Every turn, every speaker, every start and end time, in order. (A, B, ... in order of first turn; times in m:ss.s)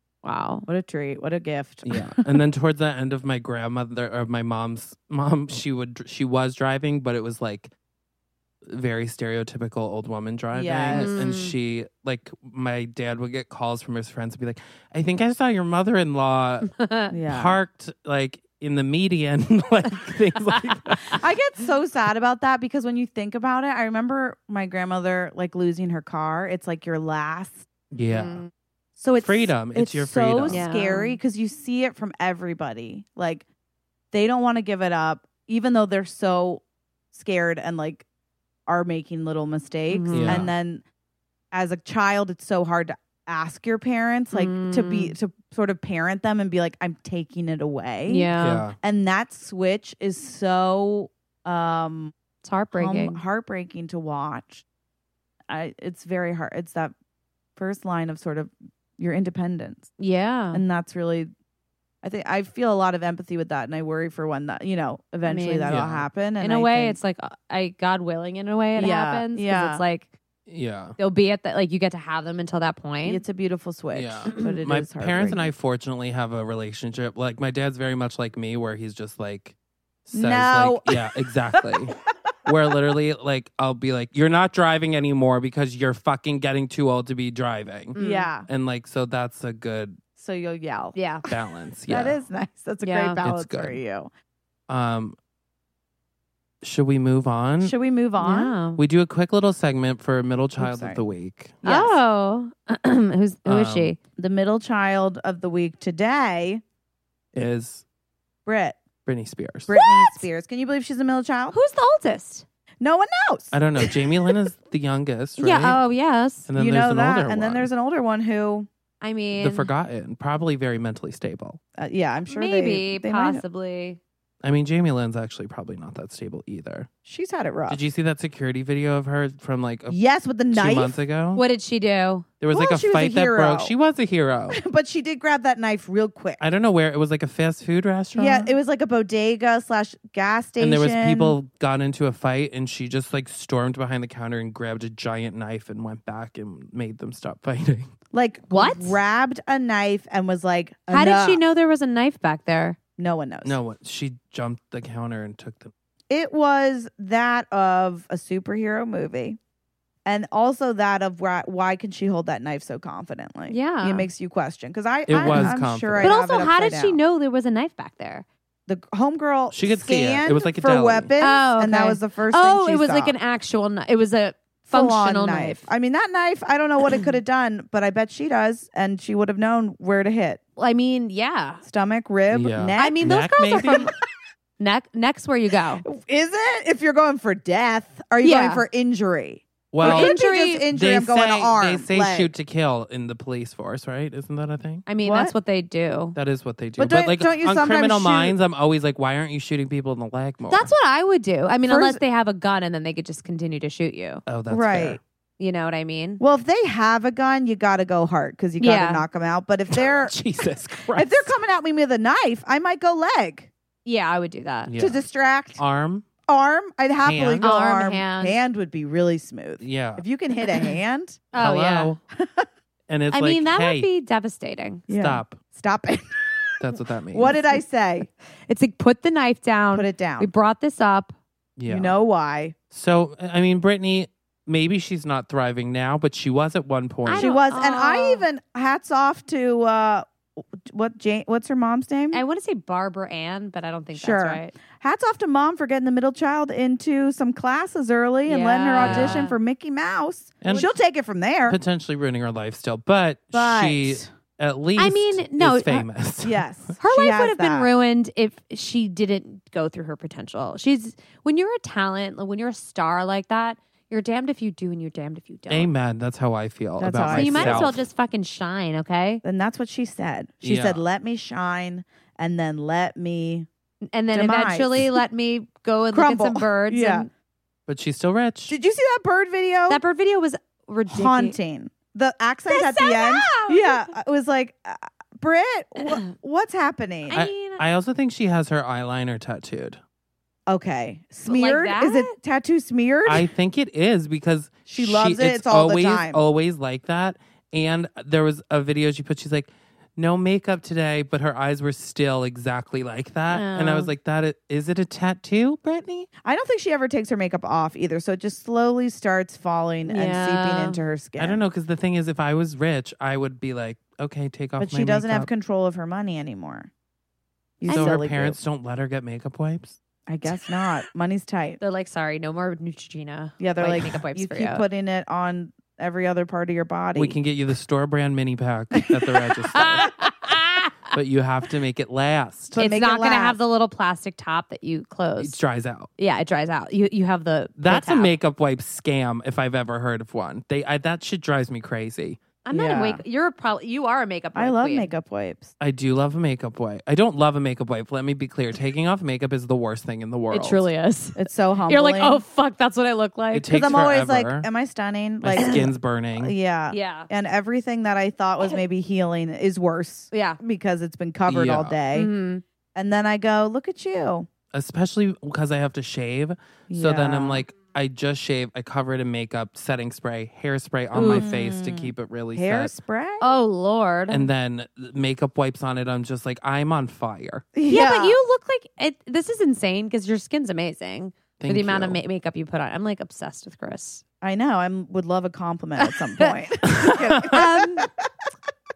0:00.2-0:00.6 A
0:00.6-0:02.4 B
0:01.8-0:07.7 C
0:08.7-0:16.7 C
0:10.5-0:11.2 B
0:10.9-0:11.5 A
0:16.7-0:17.1 A
0:17.1-0:17.6 B
0:17.3-0:21.2 C
0:21.1-0:27.7 B
0:27.9-0:28.4 C
0:28.1-0:28.5 A
0:29.0-0:33.4 B
0:29.2-0:30.6 C
0:30.5-0:31.2 A
0:34.1-0:38.0 B
0:38.7-0:40.8 B
0:39.9-0:40.4 A
0:40.1-0:40.5 C
0:41.5-0:52.1 B
0:44.3-0:45.1 A
0:48.1-0:48.6 A
0:48.4-0:48.8 C
0:52.4-0:53.2 A
0:52.7-0:54.6 B
0:55.5-0:56.9 B
0:57.6-0:59.9 B
1:00.0-1:00.6 A
1:00.5-1:01.3 B
1:02.0-1:07.0 B
1:05.2-1:05.7 A
1:05.7-1:06.1 C
1:06.4-1:10.1 A
1:08.7-1:09.8 B
1:10.5-1:11.0 C
1:11.0-1:13.2 A
1:13.0-1:15.5 B
1:13.9-1:19.5 C
1:14.3-1:14.6 A
1:20.0-1:28.0 C
1:20.1-1:21.9 B
1:27.9-1:28.3 A
1:28.0-1:28.5 B
1:28.5-1:30.0 C
1:30.2-1:31.0 B
1:30.9-1:31.2 A
1:31.3-1:32.2 C
1:31.9-1:34.1 B
1:32.8-1:33.2 A
1:33.2-1:33.8 C
1:34.7-1:35.2 C
1:36.6-1:37.8 C
1:37.6-1:38.6 B
1:38.2-1:38.8 A
1:38.8-1:41.6 C
1:40.6-1:41.0 B
1:41.6-1:42.0 B
1:41.6-1:44.0 A
1:43.4-1:43.9 C
1:44.2-1:46.6 B
1:47.3-1:47.8 C
1:48.4-1:48.8 B
1:49.0-1:49.7 C
1:49.7-1:51.6 B
1:49.7-1:50.3 A
1:51.5-1:52.4 A
1:52.8-1:53.6 B
1:53.5-1:55.8 C
1:55.4-1:56.5 A
1:56.5-1:57.7 C
1:56.6-1:58.7 B
1:59.0-1:59.7 A
1:59.3-2:01.6 C
2:01.8-2:03.4 B
2:02.3-2:04.0 A
2:04.4-2:06.9 C
2:07.0-2:07.8 B
2:07.7-2:11.4 C
2:09.9-2:11.0 B
2:11.4-2:12.3 A
2:12.4-2:14.6 C
2:12.5-2:13.7 B
2:14.5-2:16.4 B
2:16.4-2:18.5 C
2:18.1-2:21.4 B
2:20.6-2:27.9 C
2:28.1-2:31.4 B
2:28.5-2:29.0 A
2:30.9-2:32.8 A
2:33.0-2:33.6 B
2:33.4-2:35.7 C
2:36.1-2:39.4 B
2:40.0-2:47.0 B
2:43.5-2:44.1 A
2:45.1-2:46.1 C
2:45.3-2:48.2 A
2:48.7-2:53.2 B
2:49.5-2:51.1 C
2:51.2-2:55.7 A
2:54.6-3:00.4 B
3:00.6-3:01.6 A
3:01.6-3:03.0 B
3:02.3-3:03.9 C
3:02.8-3:03.9 A
3:04.6-3:05.8 A
3:05.8-3:12.3 B
3:08.2-3:08.6 A
3:09.7-3:10.1 C
3:09.8-3:10.6 A
3:10.7-3:14.9 C
3:14.8-3:16.2 A
3:15.0-3:15.3 B
3:16.1-3:20.7 C
3:16.8-3:18.4 B
3:20.5-3:24.2 A
3:21.6-3:22.0 B
3:24.2-3:25.0 C
3:24.5-3:25.0 B
3:25.4-3:26.2 A
3:26.2-3:30.2 B
3:28.6-3:29.0 A
3:29.7-3:31.4 C
3:30.9-3:33.5 B
3:33.8-3:34.7 A
3:34.7-3:35.0 C
3:34.8-3:35.6 B
3:35.6-3:36.1 C
3:36.2-3:41.2 B
3:37.0-3:37.5 C
3:37.4-3:38.4 A
3:39.6-3:40.0 C
3:41.3-3:41.9 A
3:41.3-3:42.0 C
3:42.1-3:42.5 B
3:42.9-3:43.9 C
3:43.1-3:44.9 A
3:44.9-3:46.0 B
3:44.9-3:45.4 C
3:46.6-3:47.4 C
3:47.1-3:48.1 B
3:48.5-3:51.1 A
3:49.7-3:50.3 B
3:51.6-3:52.0 C
3:51.7-3:52.5 B
3:52.7-3:57.3 C
3:57.0-3:58.2 A
3:57.1-4:02.2 B
4:02.1-4:04.6 A
4:03.9-4:11.6 B
4:08.2-4:09.4 A
4:08.8-4:09.3 C
4:10.4-4:10.7 C
4:11.5-4:16.4 C
4:13.3-4:14.1 B
4:14.8-4:15.9 A
4:16.2-4:17.7 B
4:16.8-4:25.7 A
4:25.5-4:27.8 C
4:26.8-4:27.7 B
4:27.0-4:29.2 A
4:29.2-4:33.5 B
4:30.4-4:30.8 C
4:33.9-4:37.1 A
4:34.1-4:35.0 B
4:35.9-4:37.1 B
4:37.7-4:38.5 C
4:38.5-4:39.8 B
4:39.7-4:41.4 A
4:40.9-4:47.2 B
4:42.5-4:43.9 A
4:47.0-4:47.6 A
4:47.1-4:49.8 C
4:50.5-4:53.3 B
4:51.2-4:52.1 A
4:53.0-5:06.1 C
4:54.7-4:56.2 B
5:03.3-5:03.9 A
5:06.2-5:11.4 B
5:09.8-5:10.8 A
5:11.2-5:15.3 C
5:14.6-5:16.7 B
5:17.6-5:18.4 B
5:17.7-5:17.9 A
5:17.7-5:19.8 C
5:20.1-5:21.6 B
5:21.6-5:24.6 A
5:23.4-5:27.2 B
5:26.9-5:29.9 C
5:29.5-5:30.9 A
5:30.9-5:32.6 C
5:32.5-5:33.4 B
5:32.5-5:35.4 A
5:35.2-5:35.9 C
5:36.0-5:38.1 A
5:37.6-5:42.2 C
5:42.4-5:44.9 A
5:42.5-5:43.0 B
5:44.3-5:45.5 B
5:45.6-5:50.6 C
5:50.3-5:53.8 A
5:51.2-5:52.2 B
5:53.3-5:54.5 C
5:53.5-6:02.1 B
5:55.2-5:56.3 C
5:55.4-5:55.6 A
5:56.7-5:57.1 A
6:00.1-6:00.4 A
6:01.3-6:01.8 C
6:01.9-6:02.4 A
6:02.7-6:04.3 B
6:04.5-6:12.7 C
6:06.7-6:07.4 B
6:10.9-6:13.2 B
6:10.9-6:11.3 A
6:13.2-6:14.3 A
6:14.1-6:17.4 C
6:17.5-6:18.2 B
6:17.7-6:24.0 A
6:21.4-6:22.0 C
6:24.2-6:28.1 B
6:25.8-6:26.3 A
6:26.7-6:27.4 C
6:27.2-6:27.9 A